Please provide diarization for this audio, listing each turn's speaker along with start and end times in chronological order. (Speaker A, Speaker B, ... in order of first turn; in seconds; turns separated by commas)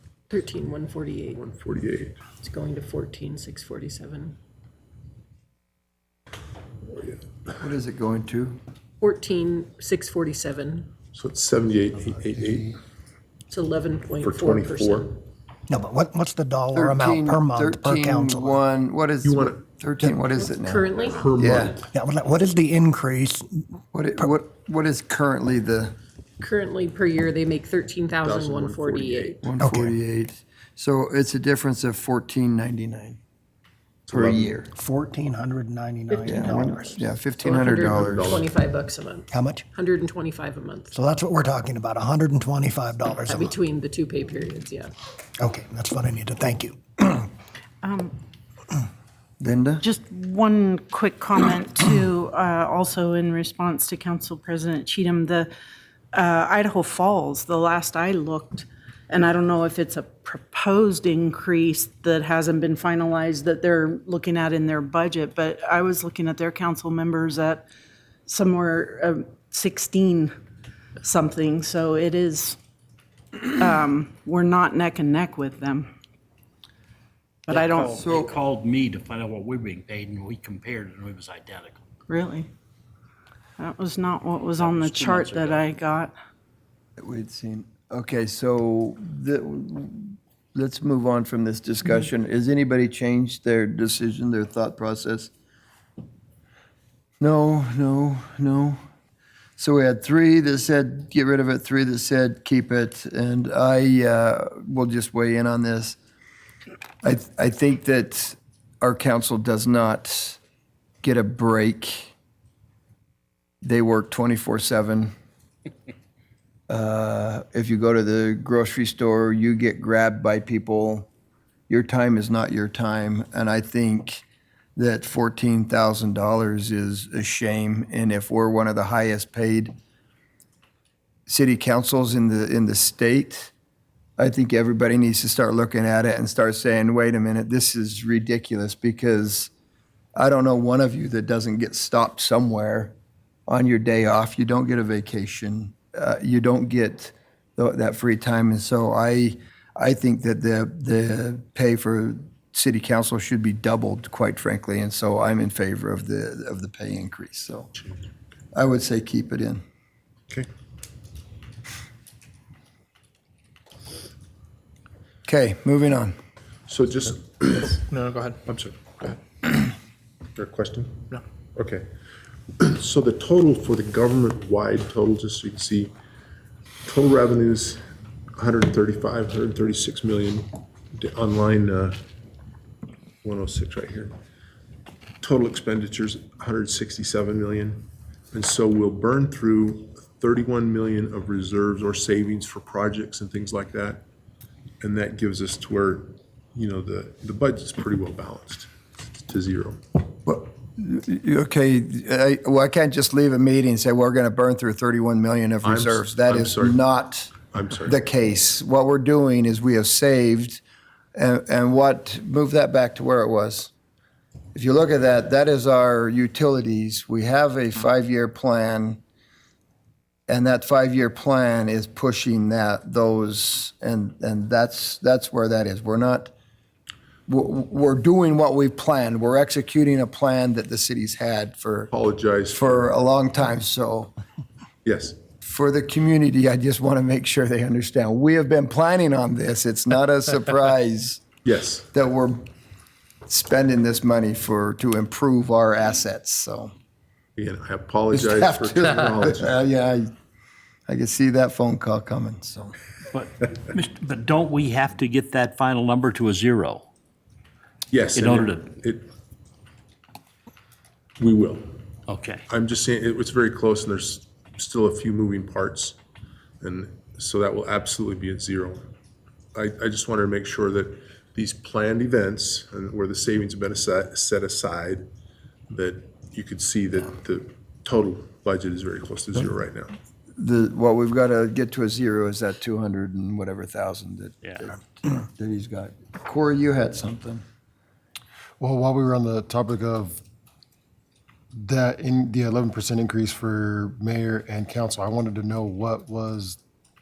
Speaker A: 0.3-1.4, Speaker B: 1.4-2.2, Speaker A: 2.4-4.4, Speaker C: 7.6-8.6, Speaker A: 9.0-10.9, Speaker B: 11.1-12.8, Speaker A: 13.5-15.2, Speaker B: 14.2-15.1, Speaker D: 15.7-18.6, Speaker C: 16.7-21.8, Speaker B: 19.2-19.6, Speaker A: 20.4-21.5, Speaker B: 21.0-21.9, Speaker D: 21.9-23.8, Speaker C: 23.9-25.9, Speaker A: 26.4-29.4, Speaker B: 28.2-29.4, Speaker C: 29.4-33.2, Speaker D: 29.6-29.9, Speaker B: 34.1-34.5, Speaker C: 34.1-34.7, Speaker D: 34.8-37.0, Speaker A: 36.1-36.6, Speaker C: 36.2-38.4, Speaker A: 37.4-41.0, Speaker B: 37.9-38.5, Speaker D: 39.3-39.6, Speaker D: 40.9-43.5, Speaker A: 43.3-44.9, Speaker D: 45.4-46.8, Speaker E: 47.8-48.1, Speaker C: 49.4-49.9, Speaker E: 49.8-55.5, Speaker E: 56.1-67.7, Speaker E: 68.3-70.3, Speaker E: 71.0-72.6, Speaker E: 73.5-75.9, Speaker E: 77.5-78.0, Speaker F: 77.5-81.8, Speaker C: 77.9-78.3, Speaker E: 82.1-82.5, Speaker E: 83.6-86.1, Speaker F: 84.5-85.6, Speaker C: 87.0-95.3, Speaker C: 97.2-98.8, Speaker C: 99.6-106.0, Speaker C: 107.0-110.4, Speaker C: 111.0-112.1, Speaker C: 113.6-115.1, Speaker C: 116.7-121.1, Speaker C: 121.7-124.2, Speaker C: 124.8-129.7, Speaker C: 131.3-133.5, Speaker C: 134.2-139.5, Speaker C: 140.2-142.9, Speaker C: 143.5-157.7, Speaker C: 158.5-159.6, Speaker C: 165.3-166.2, Speaker B: 166.7-169.2, Speaker B: 170.4-171.9, Speaker B: 172.6-175.9, Speaker B: 176.9-177.8, Speaker B: 178.4-182.0, Speaker B: 183.2-184.1, Speaker B: 185.2-194.0, Speaker B: 194.8-199.8, Speaker C: 200.3-210.6, Speaker B: 205.6-206.8, Speaker B: 207.4-208.0, Speaker C: 211.2-213.7, Speaker C: 214.5-219.0, Speaker C: 220.3-226.3, Speaker C: 227.3-231.9, Speaker B: 231.9-232.9, Speaker C: 232.5-234.1, Speaker B: 234.8-235.2, Speaker C: 235.4-241.4, Speaker B: 241.4-241.9, Speaker C: 241.9-242.5, Speaker C: 243.3-246.7, Speaker B: 247.4-249.6, Speaker C: 248.1-250.1, Speaker C: 250.9-252.8, Speaker F: 253.1-256.9, Speaker B: 257.9-259.1, Speaker F: 258.2-258.7, Speaker B: 261.2-261.7, Speaker F: 262.1-262.4, Speaker B: 262.5-266.0, Speaker B: 266.6-268.9, Speaker B: 269.6-275.1, Speaker B: 275.7-280.0, Speaker C: 280.4-287.4, Speaker G: 288.6-290.2, Speaker G: 291.6-296.6